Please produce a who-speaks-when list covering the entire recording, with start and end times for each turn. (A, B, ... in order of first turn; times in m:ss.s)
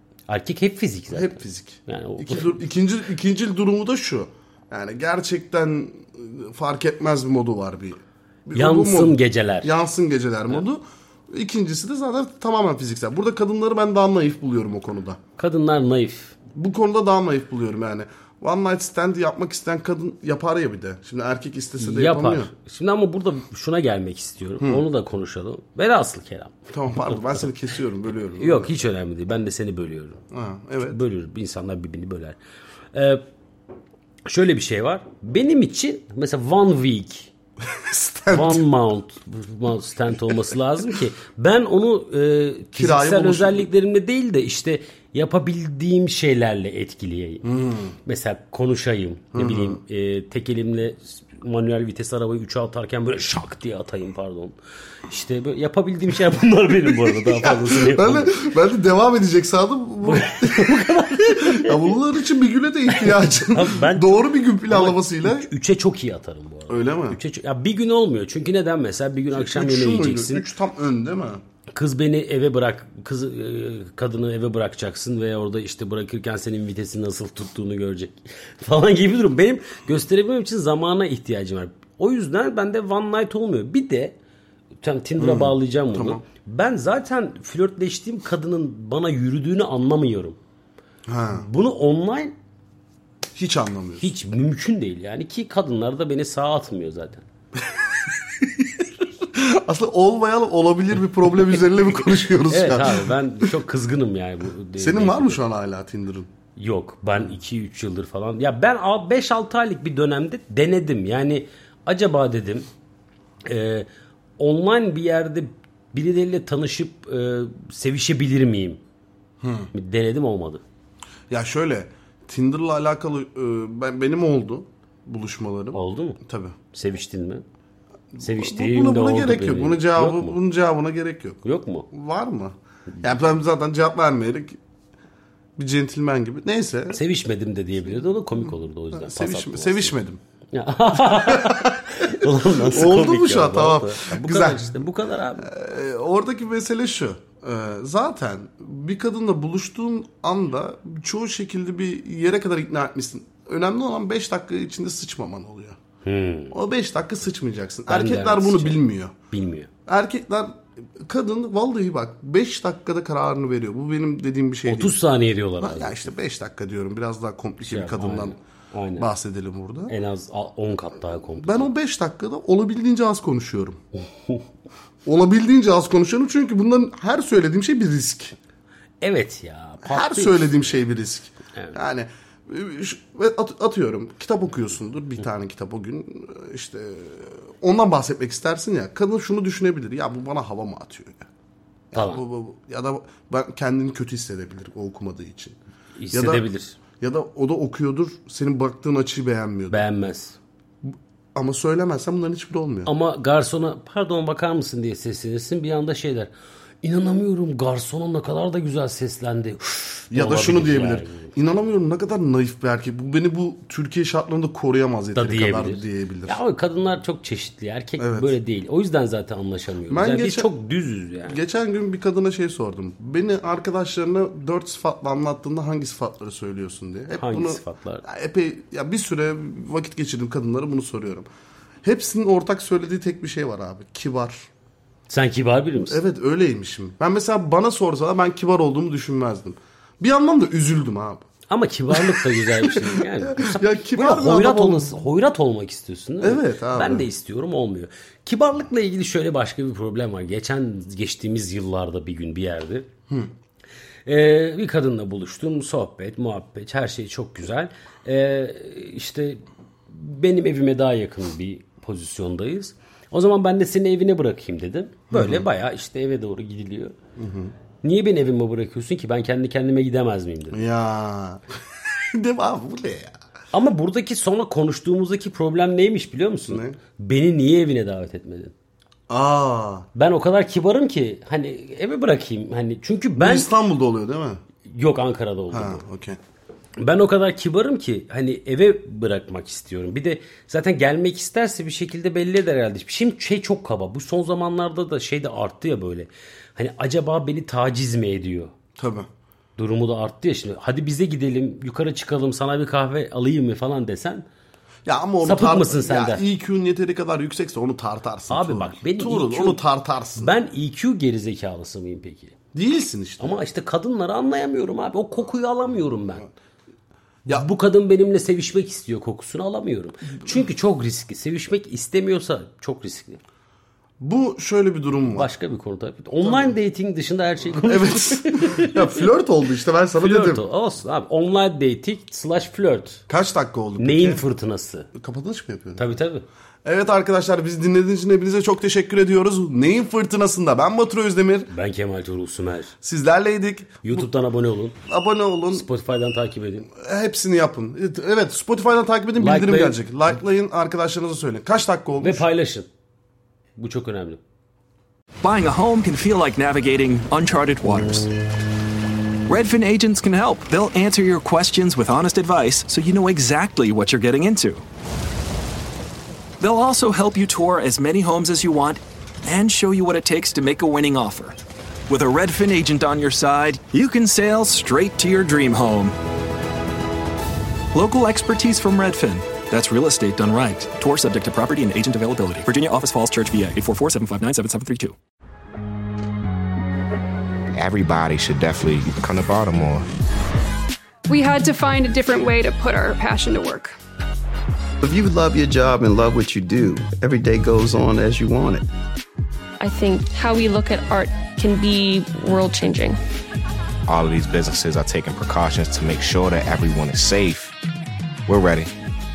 0:00.3-0:02.6 A
0:01.1-0:15.2 B
0:08.6-0:09.7 A
0:15.4-0:16.4 A
0:16.6-0:22.5 B
0:21.8-0:27.5 A
0:26.7-0:28.7 B
0:28.4-0:30.2 A
0:30.3-0:31.0 B
0:30.8-0:32.4 A
0:32.9-0:33.2 A
0:34.3-0:37.3 A
0:37.7-0:38.7 B
0:38.3-0:47.5 A
0:42.8-0:43.7 B
0:47.4-0:47.9 B
0:48.1-0:54.5 A
0:49.4-0:49.8 B
0:55.1-0:58.4 A
0:56.8-1:05.5 B
1:00.0-1:01.9 A
1:03.0-1:10.5 A
1:06.7-1:07.2 B
1:09.3-1:11.4 B
1:11.8-1:24.2 A
1:24.8-1:30.4 A
1:25.2-1:26.2 B
1:31.1-1:31.5 B
1:31.4-1:32.3 A
1:33.4-1:34.1 B
1:34.0-1:37.2 A
1:37.7-1:43.2 B
1:42.5-1:45.4 A
1:44.8-1:46.3 B
1:46.6-1:52.7 A
1:53.4-1:53.9 A
1:54.4-1:58.8 A
1:59.4-1:59.7 B
1:59.7-2:00.6 A
2:01.3-2:06.6 B
2:05.7-2:06.2 A
2:06.7-2:07.4 A
2:08.1-2:11.4 B
2:08.2-2:10.4 A
2:11.4-2:11.9 A
2:11.9-2:14.6 B
2:15.6-2:17.0 B
2:16.9-2:20.0 A
2:18.9-2:20.2 B
2:20.5-2:25.5 A
2:21.0-2:24.7 B
2:25.4-2:35.8 B
2:36.0-2:36.5 A
2:36.5-2:39.1 B
2:37.9-2:39.7 A
2:39.9-2:45.0 B
2:44.7-2:46.0 A
2:45.6-2:48.4 B
2:47.6-2:49.1 A
2:49.0-2:49.9 B
2:49.9-2:51.7 A
2:51.4-2:53.8 B
2:55.0-2:58.4 B
2:59.0-3:00.8 A
2:59.8-3:11.2 B
3:11.9-3:15.6 B
3:11.9-3:12.2 A
3:16.0-3:16.8 A
3:16.1-3:16.4 B
3:17.0-3:19.8 B
3:19.7-3:20.4 A
3:20.8-3:22.9 B
3:22.8-3:31.3 A
3:30.1-3:36.4 B
3:35.1-3:41.4 A
3:38.0-3:38.3 B
3:39.9-3:40.5 B
3:41.3-3:51.3 B
3:47.1-3:48.0 A
3:51.8-3:54.5 B
3:55.1-3:56.0 A
3:55.9-4:01.2 B
4:01.5-4:12.9 A
4:01.9-4:05.0 B
4:06.2-4:07.1 B
4:14.1-4:27.0 A
4:25.1-4:25.5 B
4:27.2-4:27.5 B
4:27.8-4:30.6 A
4:30.5-4:31.4 B
4:32.1-4:33.1 B
4:33.5-4:38.5 A
4:36.5-4:36.8 B
4:39.1-4:39.9 B
4:40.0-4:43.5 A
4:43.2-4:44.4 B
4:44.6-4:45.8 A
4:45.5-4:46.2 B
4:46.8-4:58.5 A
4:58.8-4:59.1 B
4:59.6-5:04.2 A
5:04.9-5:10.3 B
5:05.2-5:06.2 A
5:08.3-5:09.6 A
5:10.2-5:12.3 A
5:12.5-5:13.4 B
5:13.2-5:16.3 A
5:17.3-5:23.2 A
5:24.0-5:25.3 B
5:25.1-5:28.8 A
5:26.2-5:26.5 B
5:27.5-5:30.4 B
5:30.0-5:33.0 A
5:33.1-5:34.2 B
5:33.8-5:34.9 A
5:35.0-5:36.0 B
5:35.8-5:36.2 A
5:36.6-5:41.5 B
5:41.5-5:42.7 A
5:42.8-5:44.1 B
5:43.8-5:44.8 A
5:44.9-5:45.7 B
5:45.5-5:46.7 A
5:46.8-5:52.2 B
5:49.2-5:49.8 A
5:52.0-5:52.7 A
5:53.6-5:54.2 A
5:55.2-5:58.1 C
5:59.3-6:04.6 C
6:06.4-6:11.4 C
6:11.9-6:16.0 C
6:17.7-6:25.0 C
6:27.5-6:29.9 D
6:31.1-6:33.7 E
6:34.8-6:38.7 F
6:39.6-6:43.0 G
6:43.9-6:47.6 D
6:48.3-6:48.7 D